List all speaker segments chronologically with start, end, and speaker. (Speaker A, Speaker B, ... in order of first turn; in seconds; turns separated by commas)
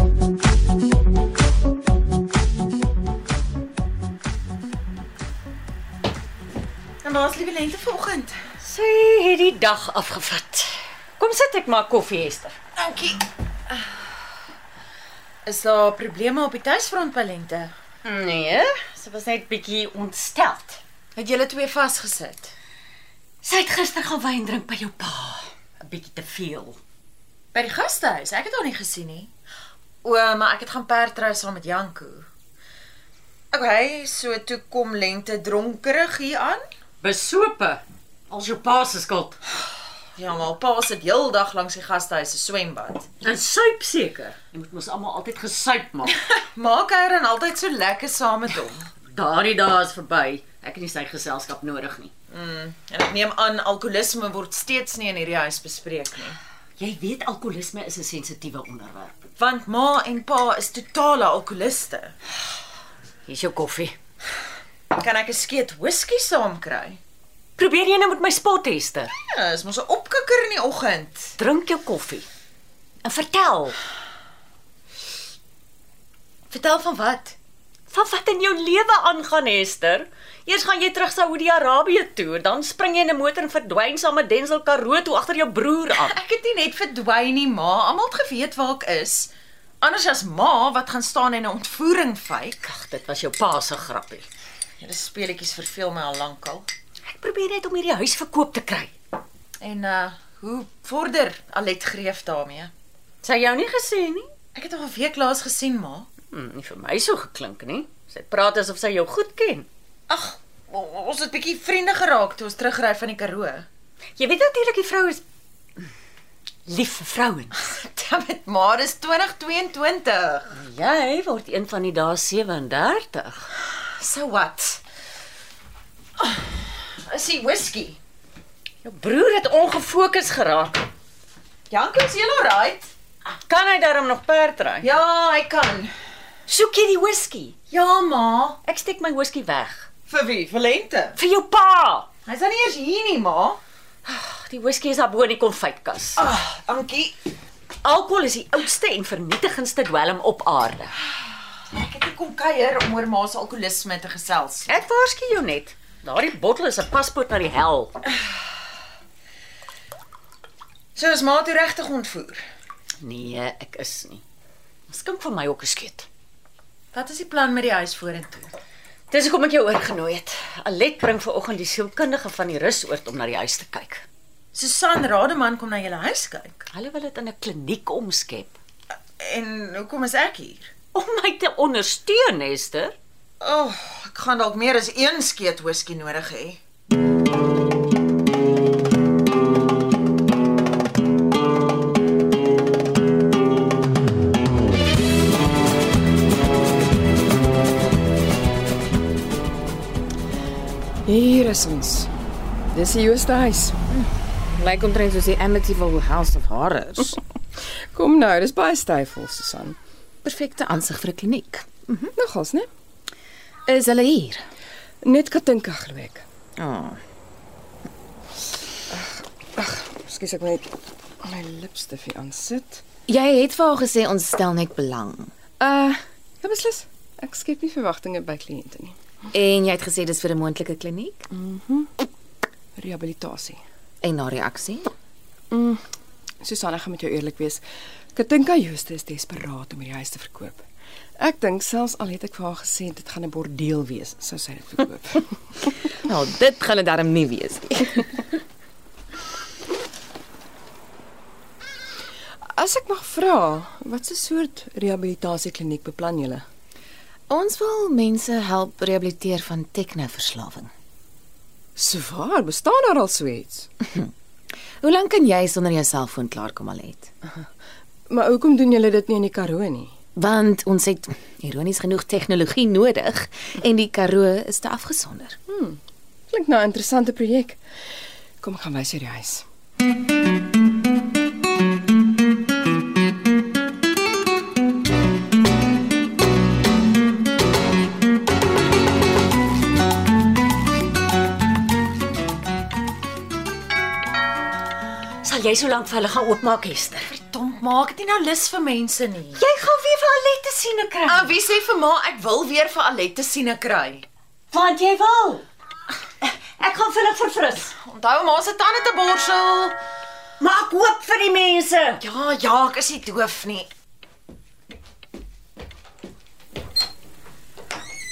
Speaker A: 7.0-8.4, Speaker B: 8.6-12.5, Speaker A: 12.8-13.2, Speaker A: 15.4-17.7, Speaker B: 18.0-20.8, Speaker A: 21.1-22.5, Speaker B: 23.4-26.8, Speaker A: 27.5-29.3, Speaker A: 30.0-32.3, Speaker A: 33.5-36.6, Speaker B: 37.0-39.4, Speaker A: 40.1-43.1, Speaker B: 43.2-46.1, Speaker A: 46.3-48.9, Speaker B: 49.1-52.1, Speaker A: 52.3-56.4, Speaker B: 56.8-59.1, Speaker A: 59.4-62.1, Speaker B: 63.3-64.0, Speaker A: 64.9-67.0, Speaker B: 67.6-69.1, Speaker A: 69.3-71.4, Speaker B: 71.4-72.2, Speaker B: 73.0-73.8, Speaker A: 76.5-77.3, Speaker B: 77.9-86.2, Speaker A: 86.0-92.6, Speaker B: 92.6-94.2, Speaker A: 94.8-96.7, Speaker B: 97.1-98.9, Speaker A: 99.6-102.7, Speaker B: 103.2-104.3, Speaker A: 104.5-106.1, Speaker B: 106.3-109.7, Speaker A: 110.1-113.7, Speaker B: 114.2-115.2, Speaker B: 116.7-117.6, Speaker A: 117.6-120.6, Speaker B: 120.5-123.5, Speaker A: 123.6-124.8, Speaker A: 126.2-128.0, Speaker B: 128.8-130.8, Speaker A: 131.7-132.9, Speaker B: 133.3-134.9, Speaker A: 134.8-135.9, Speaker B: 136.5-137.5, Speaker A: 137.7-138.6, Speaker B: 138.6-139.9, Speaker A: 140.1-141.2, Speaker B: 141.2-142.1, Speaker A: 142.2-143.6, Speaker B: 144.0-146.2, Speaker A: 146.2-147.1, Speaker B: 147.8-151.0, Speaker A: 151.6-154.7, Speaker B: 154.7-157.9, Speaker A: 160.9-162.4, Speaker B: 163.0-164.2, Speaker B: 164.9-166.1, Speaker A: 166.9-168.5, Speaker B: 169.1-174.0, Speaker A: 174.5-176.7, Speaker B: 176.7-178.6, Speaker A: 179.2-180.7, Speaker B: 180.9-182.9, Speaker A: 183.4-186.6, Speaker C: 201.1-202.1, Speaker C: 202.7-203.8, Speaker D: 203.9-207.2, Speaker C: 207.9-209.8, Speaker D: 210.2-212.1, Speaker C: 212.2-212.7, Speaker D: 213.7-214.5, Speaker C: 215.0-216.2, Speaker D: 216.6-217.0, Speaker C: 218.9-220.7, Speaker C: 221.2-222.8, Speaker D: 223.1-225.3, Speaker C: 225.6-228.9, Speaker D: 229.3-231.2, Speaker C: 231.3-231.9, Speaker C: 232.8-233.6, Speaker D: 234.0-234.9, Speaker C: 235.5-235.8, Speaker C: 236.4-240.7, Speaker C: 241.2-245.3, Speaker D: 246.0-248.2, Speaker C: 252.5-256.4, Speaker D: 257.3-260.7, Speaker C: 261.8-263.7, Speaker D: 264.8-267.1, Speaker C: 268.1-269.9, Speaker D: 270.1-275.4, Speaker C: 275.5-275.8, Speaker C: 276.3-277.6, Speaker C: 278.4-279.4, Speaker B: 295.2-297.1, Speaker A: 297.1-299.4, Speaker B: 299.4-301.3, Speaker A: 301.1-304.0, Speaker B: 304.5-305.4, Speaker B: 306.2-307.7, Speaker A: 307.8-309.8, Speaker B: 310.4-312.0, Speaker A: 312.0-313.7